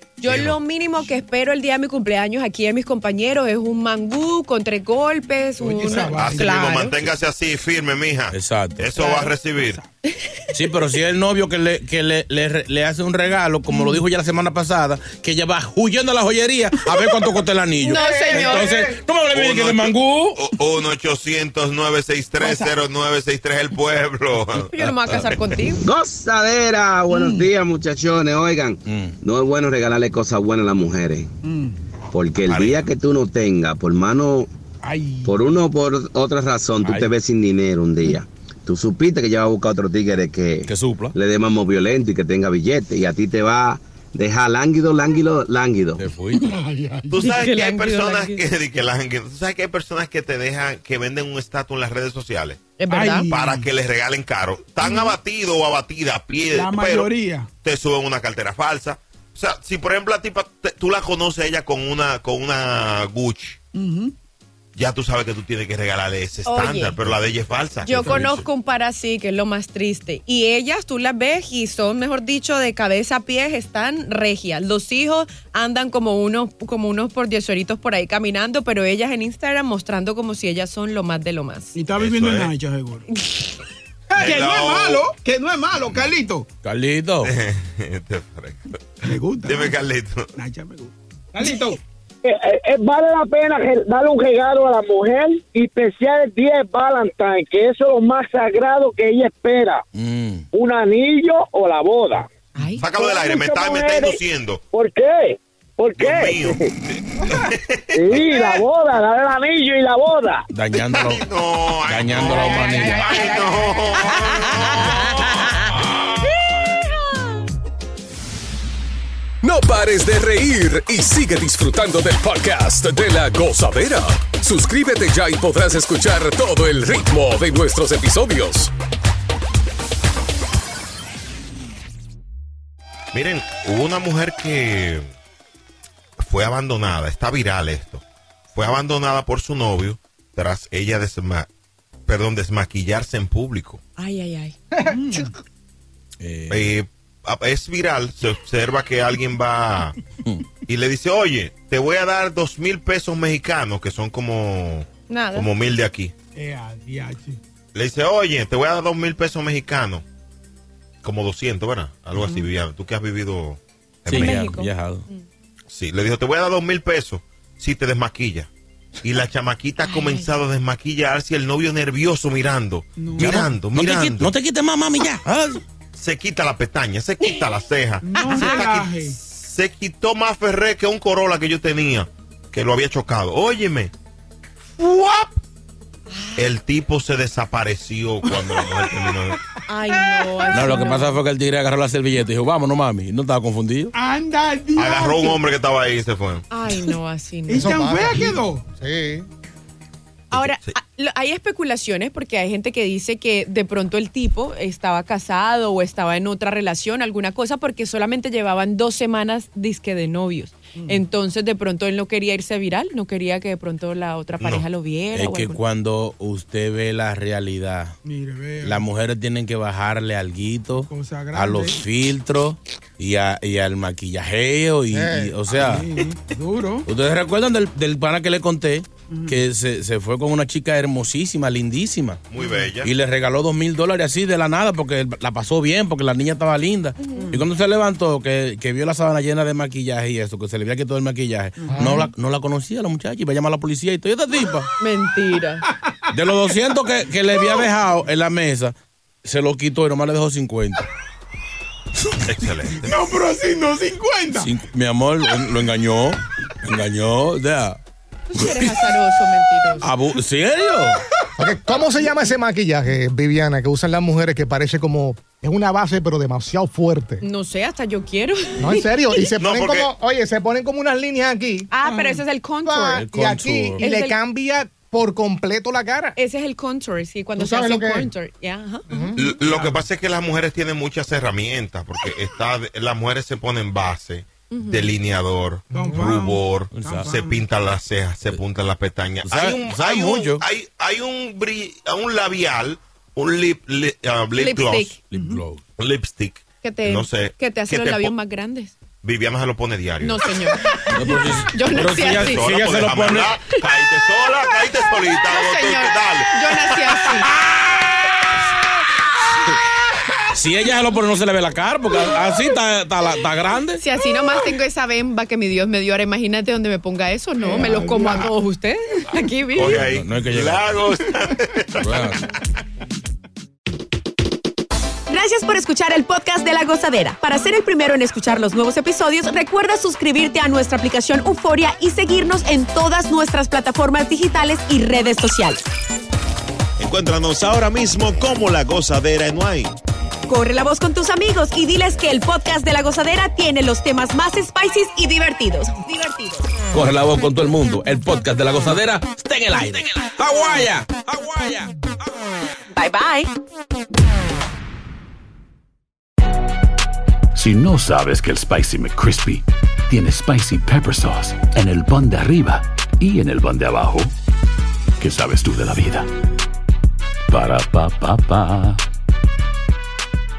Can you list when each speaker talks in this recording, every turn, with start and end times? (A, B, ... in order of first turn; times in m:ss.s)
0:00.2-0:07.0 A
0:00.2-0:00.6 B
0:05.6-0:06.8 C
0:06.0-0:09.8 B
0:08.3-0:08.9 D
0:09.1-0:09.8 C
0:10.5-0:20.4 D
0:17.8-0:18.8 A
0:17.8-0:18.8 C
0:19.3-0:24.7 B
0:22.4-0:22.8 C
0:24.6-0:25.8 A
0:24.8-0:25.2 D
0:25.9-0:31.3 E
0:27.1-0:27.5 C
0:28.8-0:29.2 D
0:31.4-0:31.8 C
0:32.1-0:34.5 E
0:32.5-0:32.7 B
0:34.8-0:35.5 C
0:35.3-0:40.6 E
0:36.8-0:37.1 D
0:40.6-0:41.1 D
0:41.2-0:46.0 E
0:46.0-0:46.5 D
0:46.4-0:47.1 C
0:47.1-0:52.6 B
0:47.2-0:48.4 A
0:52.8-0:53.3 A
0:52.9-0:53.7 C
0:53.3-1:03.6 B
0:54.8-0:55.1 A
0:56.5-0:57.5 C
1:03.7-1:04.1 C
1:04.7-1:08.4 B
1:06.4-1:07.0 A
1:07.8-1:08.3 D
1:07.8-1:21.8 A
1:21.7-1:23.0 C
1:22.0-1:22.5 B
1:24.1-1:26.5 C
1:24.2-1:25.0 B
1:26.6-1:27.3 D
1:27.2-1:30.3 B
1:29.0-1:29.8 C
1:30.4-1:31.8 C
1:32.2-1:39.8 F
1:39.9-1:40.4 D
1:40.5-1:42.3 F
1:42.6-1:42.8 A
1:42.8-1:44.6 B
1:42.8-1:44.2 F
1:44.7-1:46.7 F
1:46.0-1:48.3 B
1:47.9-1:50.4 F
1:50.5-1:51.2 D
1:50.9-1:56.3 B
1:51.8-1:53.1 D
1:52.2-1:53.8 G
1:59.4-2:08.7 H
2:13.1-2:15.1 B
2:16.2-2:21.5 B
2:22.1-2:23.8 B
2:24.0-2:24.6 A
2:24.7-2:25.2 G
2:24.9-2:25.3 C
2:26.2-2:26.7 D
2:26.5-2:30.0 B
2:30.6-2:36.1 B
2:35.1-2:35.5 A
2:36.3-2:37.4 C
2:37.7-2:40.0 B
2:41.0-2:44.5 B
2:42.2-2:42.4 C
2:44.1-2:45.0 D
2:44.1-2:45.2 A
2:45.7-2:48.5 B
2:49.0-2:54.3 B
2:49.8-2:50.3 A
2:53.0-2:53.4 C
2:53.1-2:55.6 D
2:55.9-3:03.9 B
2:58.0-2:59.2 C
2:58.4-2:58.6 A
3:04.8-3:05.3 B
3:06.1-3:06.5 A
3:06.4-3:09.4 B
3:09.7-3:11.2 A
3:10.5-3:13.9 D
3:13.9-3:15.4 C
3:14.8-3:16.4 B
3:16.5-3:18.1 A
3:17.5-3:18.6 C
3:17.5-3:19.3 G
3:20.3-3:20.7 B
3:20.3-3:35.6 A
3:30.8-3:31.0 C
3:34.4-3:34.6 B
3:35.1-3:37.9 D
3:38.0-3:38.8 C
3:38.6-3:45.9 D
3:40.9-3:41.8 C
3:44.9-3:45.4 G
3:45.5-3:46.9 C
3:46.8-3:52.2 D
3:49.1-3:49.4 C
3:52.3-3:52.9 B
3:52.4-3:52.6 C
3:52.8-4:04.7 D
4:01.6-4:01.9 C
4:01.7-4:02.1 G
4:04.8-4:05.6 A
4:06.1-4:10.8 D
4:12.2-4:13.0 B
4:12.8-4:14.5 C
4:14.4-4:17.8 D
4:18.3-4:19.9 A
4:18.4-4:18.6 D
4:19.8-4:21.0 D
4:21.4-4:27.2 G
4:27.2-4:28.9 A
4:28.6-4:36.2 G
4:29.4-4:29.9 B
4:31.7-4:33.0 A
4:32.9-4:33.8 D
4:33.8-4:34.2 A
4:36.2-4:38.8 A
4:37.4-4:38.1 G
4:38.9-4:39.2 G
4:39.2-4:55.0 B
4:39.4-4:39.8 C
4:44.5-4:44.9 A
4:45.7-4:46.0 G
4:45.7-4:47.4 C
4:46.7-4:47.1 D
4:49.2-4:50.4 D
4:54.4-4:55.0 A
4:55.1-4:55.6 D
4:55.8-4:58.1 B
4:56.6-4:58.7 A
4:59.0-5:00.5 B
5:00.0-5:00.7 A
5:00.8-5:03.3 D
5:01.5-5:02.4 A
5:02.0-5:07.2 B
5:05.3-5:07.3 A
5:10.3-5:13.8 D
5:13.8-5:19.8 A
5:17.6-5:18.2 C
5:17.6-5:18.1 D
5:19.5-5:22.1 B
5:19.7-5:20.8 D
5:21.8-5:22.2 D
5:25.1-5:35.6 A
5:36.8-5:39.7 I
5:40.3-5:46.5 A
5:46.7-5:51.7 D
5:52.8-5:53.3 A
5:57.3-6:04.1 J
6:05.0-6:06.1 J
6:07.3-6:08.8 J